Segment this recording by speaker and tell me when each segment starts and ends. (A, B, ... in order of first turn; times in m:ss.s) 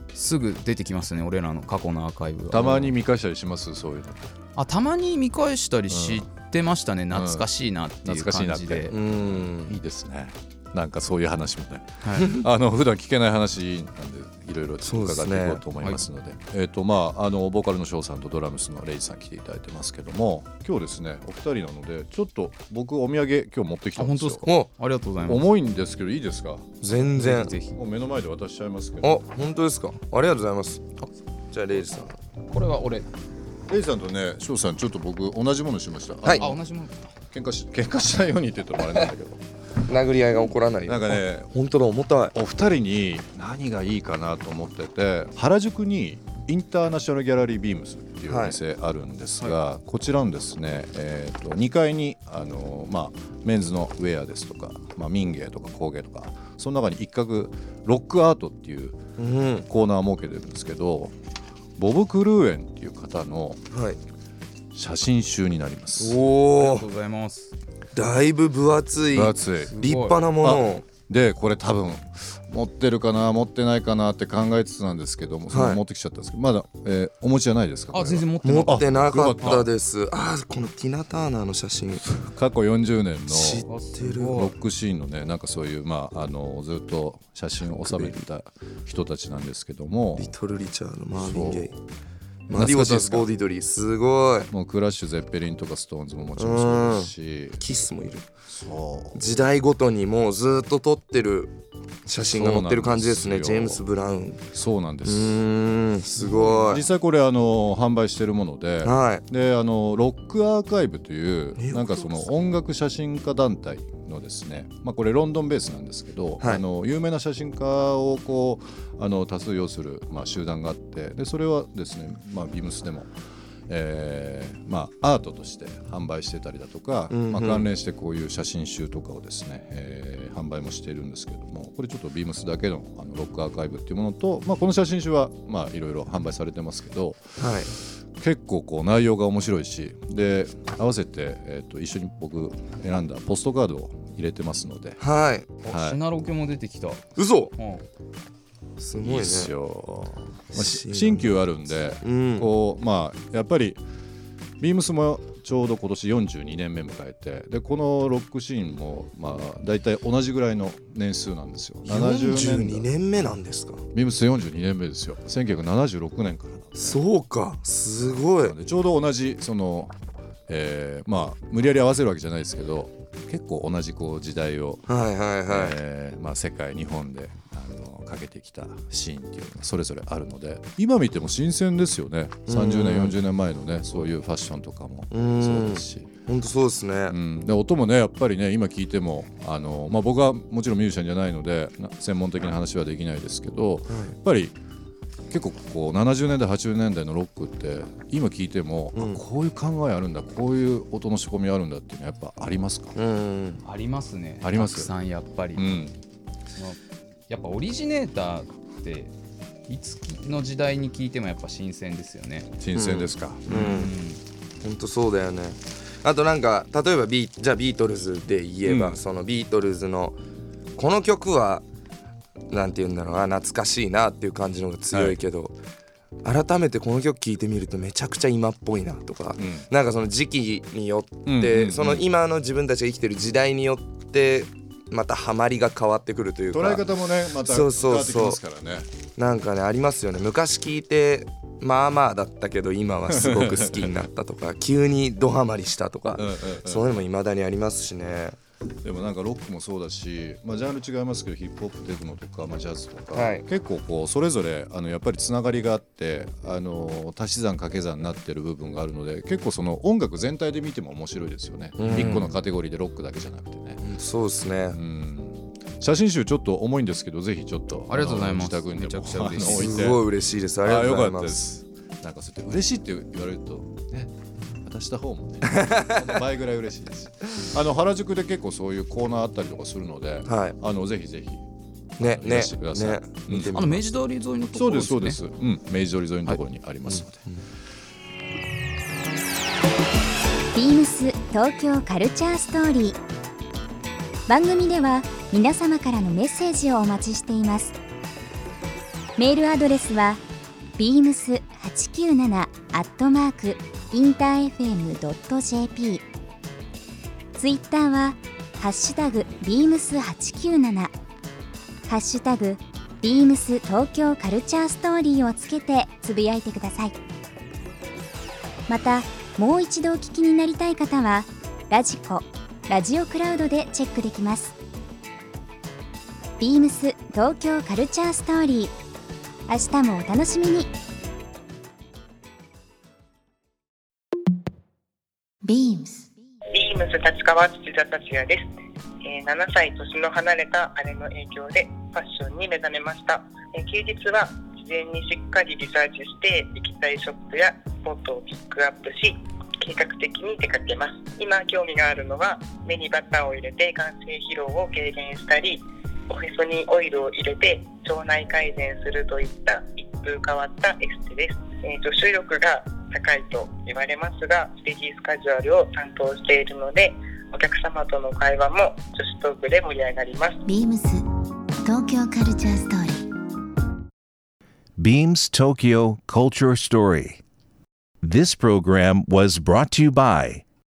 0:00.1-0:03.0 A
0:02.5-0:04.3 B
0:04.6-0:08.9 A
0:05.9-0:06.3 B
0:07.1-0:07.5 B
0:08.0-0:24.5 B
0:08.9-0:09.8 C
0:12.0-0:12.4 A
0:14.8-0:15.6 C
0:15.8-0:16.0 A
0:24.0-0:25.4 A
0:24.4-0:24.7 C
0:25.2-0:26.8 B
0:26.8-0:27.6 C
0:27.1-0:27.8 A
0:27.7-0:29.2 B
0:29.0-0:30.8 C
0:31.5-0:32.1 C
0:31.7-0:32.0 B
0:32.5-0:33.1 A
0:33.7-0:36.6 B
0:36.2-0:36.5 C
0:36.3-0:37.1 A
0:37.3-0:39.4 B
0:38.8-0:39.1 C
0:39.8-0:42.3 C
0:40.9-0:41.6 B
0:42.3-0:59.0 B
0:48.3-0:48.6 C
0:59.2-0:59.7 C
0:59.6-1:01.2 B
1:01.8-1:03.6 B
1:03.7-1:04.0 C
1:04.7-1:06.2 B
1:06.0-1:06.9 C
1:06.5-1:07.6 A
1:07.9-1:10.9 C
1:09.1-1:09.8 B
1:09.7-1:10.3 A
1:10.4-1:19.7 B
1:15.5-1:15.8 C
1:17.9-1:18.9 A
1:18.4-1:22.0 C
1:22.0-1:23.7 B
1:23.3-1:24.4 C
1:23.7-1:24.6 A
1:24.3-1:30.3 B
1:27.8-1:28.2 C
1:30.2-1:31.8 C
1:31.1-1:31.8 B
1:32.5-1:34.5 C
1:32.5-1:33.3 B
1:34.5-1:37.7 B
1:36.4-1:38.2 C
1:38.5-1:39.2 B
1:39.1-1:41.5 C
1:42.1-1:44.5 C
1:42.2-1:43.8 B
1:44.5-1:45.4 B
1:45.0-1:46.9 C
1:46.2-2:03.1 B
1:48.8-1:49.2 C
1:51.6-1:52.3 C
1:56.4-1:56.6 C
2:03.7-2:17.5 B
2:07.1-2:07.7 C
2:17.4-2:17.8 C
2:18.2-2:25.0 B
2:25.0-2:25.6 C
2:25.6-2:26.0 B
2:25.6-2:27.9 A
2:27.2-2:27.5 C
2:28.8-2:29.5 C
2:29.0-2:33.8 B
2:30.5-2:32.6 C
2:34.6-2:42.9 B
2:41.8-2:43.8 C
2:43.9-2:47.0 B
2:46.7-2:48.6 C
2:48.4-2:49.9 B
2:50.5-2:54.9 B
2:54.9-2:55.8 C
2:55.5-3:06.2 B
3:02.5-3:03.2 C
3:05.1-3:07.2 C
3:07.1-3:14.6 B
3:13.9-3:14.2 C
3:15.3-3:23.0 B
3:18.9-3:19.2 C
3:23.0-3:23.6 C
3:23.6-3:25.6 A
3:24.4-3:24.9 B
3:25.5-3:26.0 B
3:26.6-3:29.1 A
3:29.7-3:32.5 A
3:32.6-3:33.8 B
3:32.7-3:33.9 C
3:33.5-3:34.2 A
3:34.6-3:40.2 C
3:38.6-3:39.0 B
3:40.8-3:41.6 C
3:42.5-3:45.6 C
3:44.9-3:45.2 B
3:46.2-3:58.4 C
3:49.4-3:49.7 B
3:51.2-3:52.1 B
3:56.5-3:58.9 B
3:59.0-4:08.4 C
4:03.1-4:04.0 B
4:06.2-4:07.0 B
4:08.8-4:23.8 B
4:13.1-4:13.5 C
4:21.8-4:22.4 C
4:23.8-4:24.8 C
4:24.7-4:30.0 B
4:27.9-4:29.8 A
4:29.4-4:31.4 C
4:30.6-4:34.1 B
4:34.6-4:41.4 B
4:35.5-4:36.0 C
4:40.2-4:40.6 C
4:42.0-4:43.6 B
4:42.0-4:43.9 C
4:43.5-4:45.2 A
4:44.5-4:47.2 B
4:46.8-4:47.4 C
4:50.5-4:53.0 D
4:54.3-4:57.8 D
4:59.2-5:00.2 D
5:00.8-5:06.0 D
5:07.4-5:10.9 D
5:11.9-5:17.0 D
5:18.7-5:24.6 D
5:26.4-5:28.7 D
5:29.5-5:30.7 D
5:35.4-5:36.1 E
5:36.5-5:38.5 F
5:39.0-6:10.4 F
6:10.5-6:11.0 E
6:11.6-6:13.1 E
6:14.8-6:17.0 G
6:18.1-6:20.4 G